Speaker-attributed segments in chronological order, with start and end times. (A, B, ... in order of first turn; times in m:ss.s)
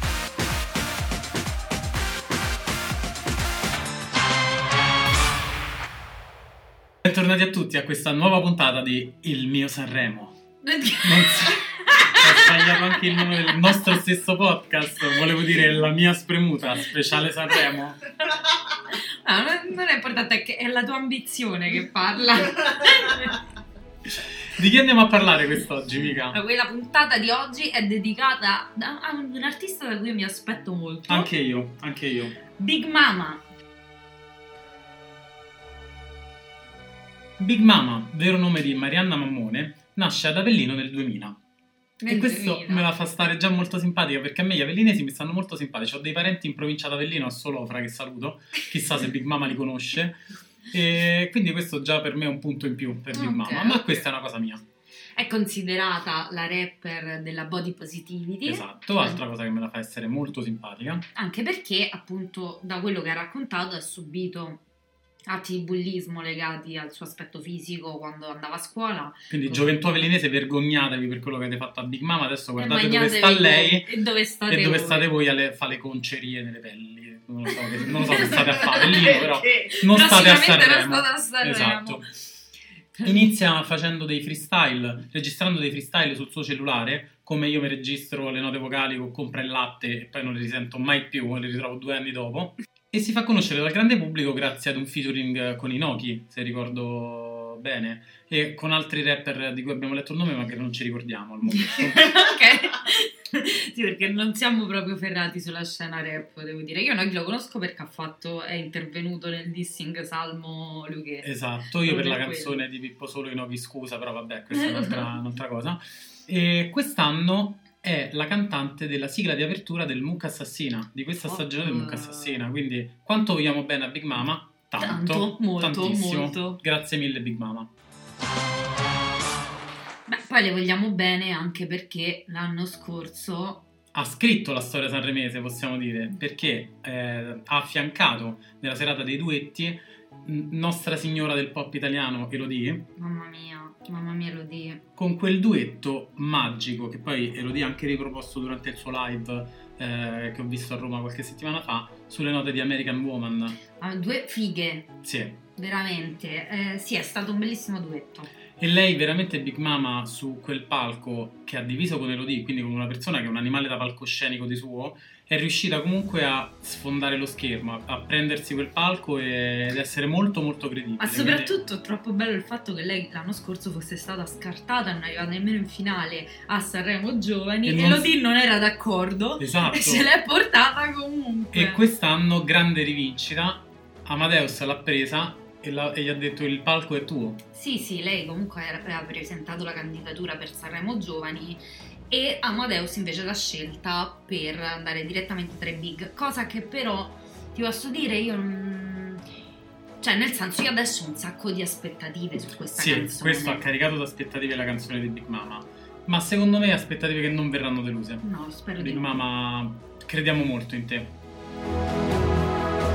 0:07.0-0:10.4 A
0:10.6-0:14.0 B
0:11.0-0:18.0 A
0:18.7-0:23.4 B
0:24.0-0:26.4 A
0:26.3-0:31.3 B
0:31.1-0:32.4 A
0:32.6-0:33.4 B
0:37.4-0:41.4 A
0:42.0-0:42.8 B
0:42.1-0:54.6 A
0:53.1-0:54.0 B
0:55.2-0:59.2 B
0:58.4-1:01.0 A
1:01.1-1:04.6 B
1:05.3-1:10.1 B
1:09.3-1:13.9 A
1:12.6-1:15.1 B
1:14.5-1:22.0 A
1:17.6-1:22.0 B
1:23.0-1:42.1 A
1:41.6-1:52.6 B
1:51.2-2:07.7 A
1:54.5-1:55.1 B
2:01.2-2:02.4 B
2:04.8-2:06.6 B
2:10.1-2:13.7 B
2:13.9-2:22.9 A
2:23.0-2:24.8 B
2:25.0-2:33.6 A
2:33.8-2:34.9 B
2:35.0-2:35.4 A
2:35.6-2:38.3 B
2:38.6-2:51.5 A
2:51.0-3:01.8 B
2:57.6-2:58.2 A
2:59.4-3:00.1 A
3:01.5-3:07.4 A
3:07.5-3:19.2 B
3:20.0-3:23.6 B
3:22.8-3:28.2 A
3:28.2-3:29.2 B
3:28.8-3:31.2 A